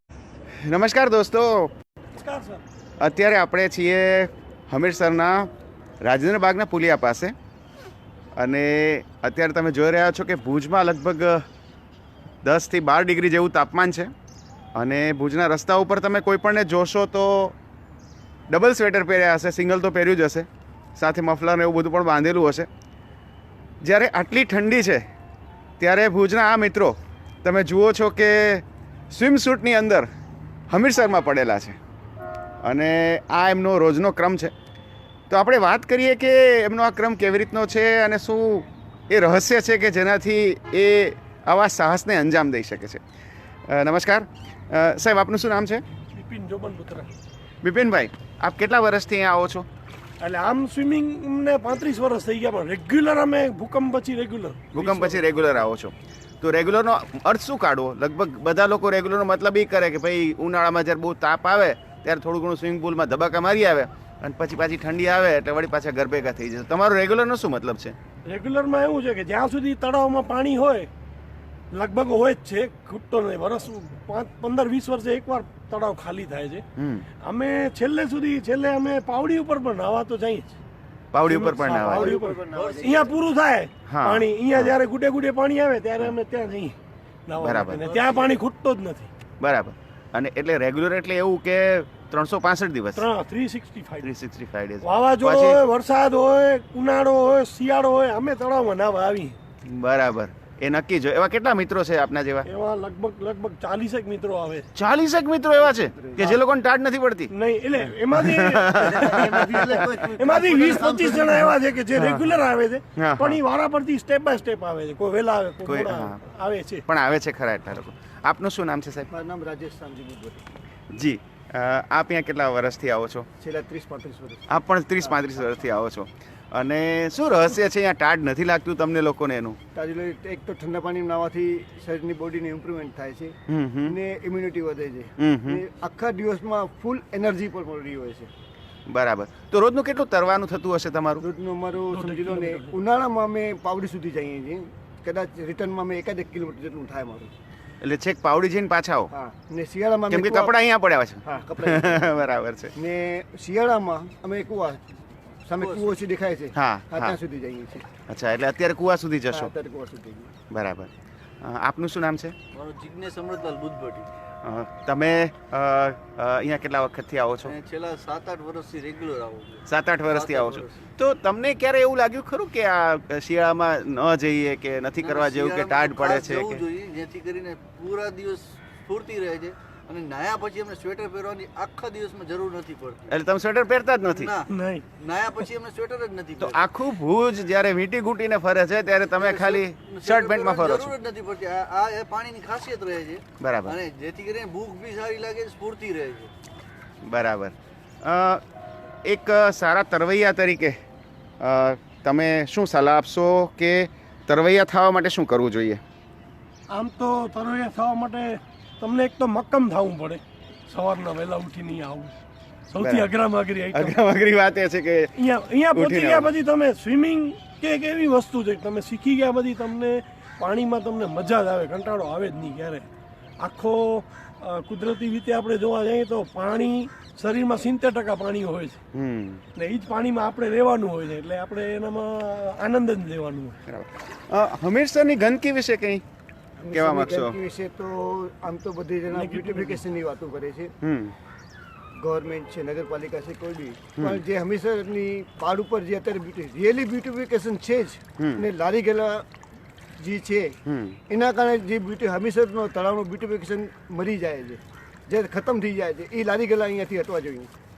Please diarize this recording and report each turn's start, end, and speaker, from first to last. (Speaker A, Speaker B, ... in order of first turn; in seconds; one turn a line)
Speaker A: 0.6-1.7
Speaker B: 2.1-2.6
Speaker A: 3.0-5.5
Speaker A: 6.0-7.3
Speaker A: 8.3-11.4
Speaker A: 12.4-14.1
Speaker A: 14.7-17.5
Speaker A: 18.5-22.7
Speaker A: 23.8-25.1
Speaker A: 25.8-30.1
Speaker A: 30.7-31.8
Speaker A: 32.6-34.5
Speaker A: 35.3-43.0
Speaker A: 43.7-45.8
Speaker B: 46.1-47.1
Speaker A: 47.6-49.7
Speaker B: 50.2-55.6
Speaker A: 54.7-67.9
Speaker B: 68.2-70.9
Speaker B: 71.7-76.7
Speaker A: 76.8-77.0
Speaker B: 77.2-80.6
Speaker A: 81.1-82.2
Speaker B: 81.2-89.1
Speaker C: 81.8-83.2
Speaker D: 82.5-83.1
Speaker A: 83.9-84.8
Speaker A: 87.4-88.0
Speaker D: 87.8-88.3
Speaker A: 89.4-93.0
Speaker B: 92.9-94.1
Speaker A: 94.0-95.6
Speaker B: 94.8-99.3
Speaker A: 99.6-102.5
Speaker B: 102.4-104.7
Speaker A: 104.7-107.3
Speaker C: 105.7-106.4
Speaker B: 107.3-116.8
Speaker A: 108.1-110.0
Speaker C: 108.7-111.5
Speaker A: 111.9-112.3
Speaker A: 113.0-113.4
Speaker A: 115.6-116.2
Speaker A: 116.9-119.1
Speaker C: 119.1-120.5
Speaker A: 120.9-123.3
Speaker C: 123.4-125.3
Speaker A: 124.5-129.6
Speaker C: 129.7-138.3
Speaker A: 133.5-133.9
Speaker A: 135.2-135.6
Speaker A: 138.9-141.2
Speaker C: 141.2-147.3
Speaker B: 141.9-142.8
Speaker A: 147.8-149.1
Speaker C: 149.1-150.5
Speaker A: 150.1-152.7
Speaker C: 151.2-152.2
Speaker C: 152.8-154.8
Speaker C: 155.4-157.9
Speaker D: 155.6-156.0
Speaker A: 156.5-157.2
Speaker A: 158.1-159.5
Speaker C: 159.3-160.3
Speaker A: 160.5-160.9
Speaker A: 161.4-162.3
Speaker D: 162.5-164.1
Speaker A: 164.4-167.5
Speaker D: 167.4-170.8
Speaker A: 169.7-176.6
Speaker D: 175.0-183.1
Speaker A: 183.1-184.3
Speaker D: 184.1-186.6
Speaker B: 184.5-184.8
Speaker A: 186.4-190.9
Speaker D: 189.2-196.3
Speaker A: 193.4-193.8
Speaker A: 197.0-198.4
Speaker A: 199.0-200.8
Speaker A: 201.4-205.8
Speaker B: 206.7-212.2
Speaker B: 212.7-213.9
Speaker A: 212.8-213.1
Speaker A: 213.7-215.1
Speaker B: 215.1-222.9
Speaker A: 215.7-216.3
Speaker B: 223.4-228.8
Speaker A: 228.9-229.4
Speaker B: 229.5-233.6
Speaker A: 233.7-236.0
Speaker C: 236.6-240.7
Speaker A: 236.7-237.3
Speaker B: 239.1-239.8
Speaker A: 240.8-241.1
Speaker C: 241.9-249.2
Speaker A: 248.2-248.4
Speaker C: 250.0-250.6
Speaker A: 250.7-251.0
Speaker C: 251.1-257.5